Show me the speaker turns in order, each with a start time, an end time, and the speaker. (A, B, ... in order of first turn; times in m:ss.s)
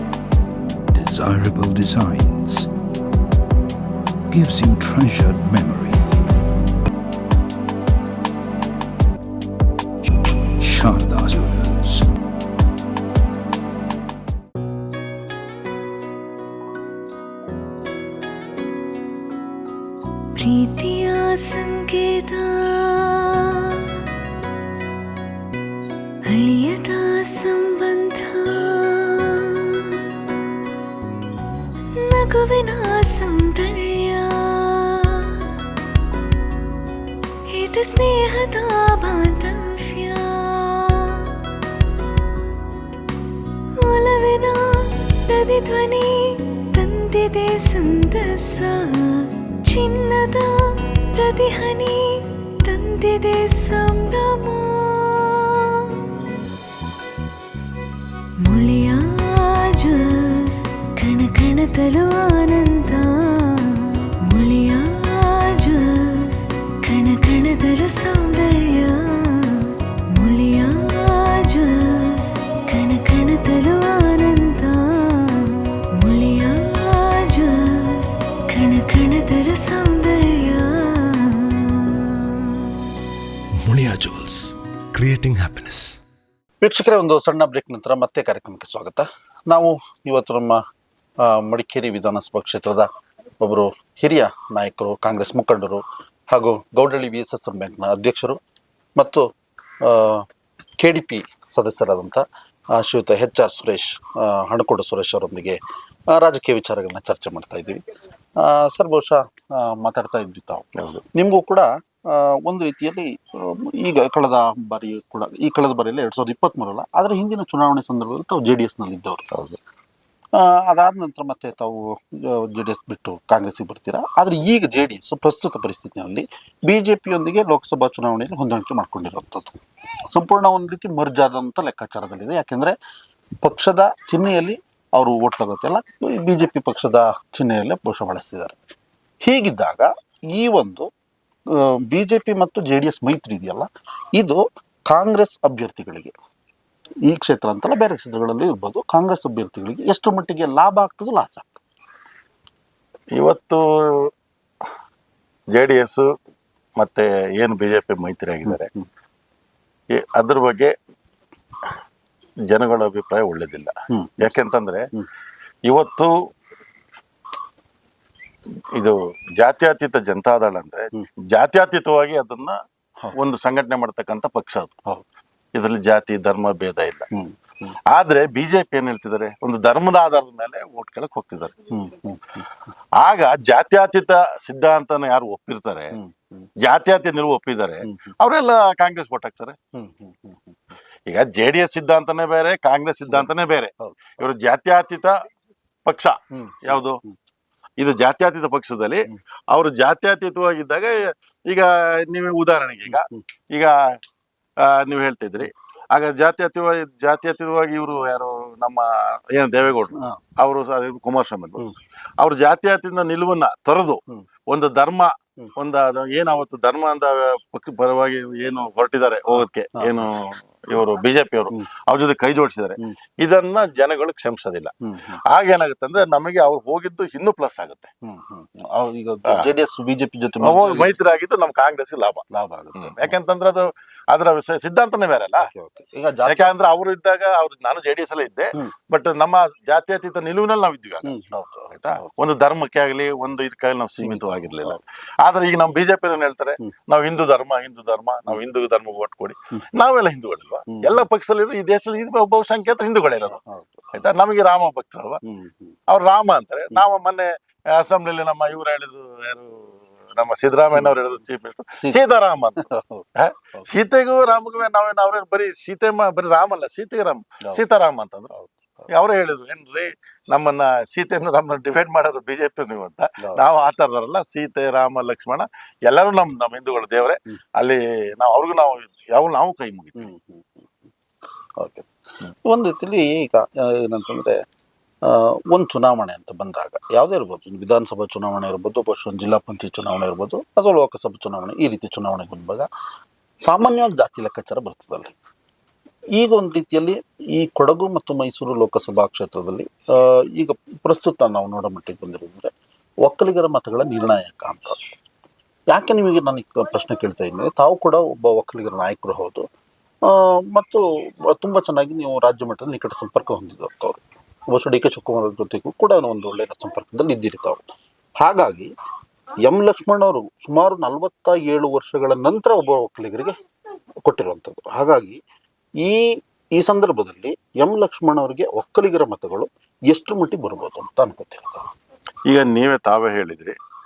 0:00.9-0:02.7 A
0:04.3-0:06.2 A
0:10.6-0:12.0 A
0:20.3-0:24.0 B
0:26.2-0:30.0 B
0:31.9-0:35.6 B
0:37.5-0:41.4 B
0:43.8-0:56.2 B
0:58.4-1:22.7 B
1:23.6-1:26.0 C
1:26.6-1:30.6 D
1:31.2-1:32.9 D
1:33.4-1:38.4 D
1:39.0-1:39.2 D
1:39.8-1:40.3 D
1:40.8-1:42.2 D
1:42.7-1:45.6 D
1:46.1-1:47.8 D
1:48.4-1:59.3 D
1:50.8-1:51.0 E
1:59.3-1:59.6 E
2:00.3-2:12.7 D
2:13.4-2:18.6 D
2:19.2-2:20.9 D
2:21.5-2:26.1 D
2:27.0-2:31.6 D
2:33.1-2:34.1 E
2:35.5-2:36.1 E
2:36.8-2:38.7 E
2:38.5-2:38.8 D
2:39.9-2:40.7 E
2:42.5-2:44.9 E
2:43.9-2:44.3 D
2:45.6-2:46.1 E
2:48.7-2:52.6 E
2:53.1-2:54.8 E
2:55.5-2:57.0 E
2:57.1-2:57.7 D
2:57.9-3:01.5 E
3:01.7-3:02.4 D
3:03.0-3:06.0 E
3:05.9-3:06.5 D
3:06.6-3:09.6 E
3:07.8-3:08.1 D
3:09.7-3:10.6 D
3:11.1-3:15.1 E
3:15.8-3:17.0 E
3:16.3-3:17.1 D
3:17.8-3:23.7 E
3:22.9-3:23.2 D
3:24.6-3:31.6 E
3:32.2-3:44.7 E
3:39.3-3:40.0 D
3:44.8-3:45.2 D
3:45.3-3:47.9 E
3:48.0-3:50.9 D
3:50.4-3:52.2 E
3:52.3-3:53.1 D
3:52.8-3:55.5 E
3:55.4-3:56.5 D
3:56.3-4:01.2 E
4:01.0-4:02.1 D
4:01.7-4:13.4 E
4:04.0-4:04.8 D
4:10.7-4:11.0 D
4:13.4-4:14.1 D
4:13.9-4:15.2 E
4:15.2-4:15.8 D
4:15.9-4:28.3 E
4:22.7-4:23.7 D
4:28.3-4:28.9 D
4:28.9-4:40.1 E
4:40.0-4:40.7 D
4:41.6-4:41.9 D
4:42.4-4:44.4 D
4:45.0-4:52.7 D
4:53.4-4:55.1 D
4:56.2-5:02.5 D
5:03.0-5:04.8 D
5:05.7-5:09.5 D
5:10.0-5:17.6 D
5:18.2-5:18.7 D
5:19.4-5:23.4 D
5:24.0-5:25.2 D
5:25.8-5:31.7 D
5:32.3-5:33.6 E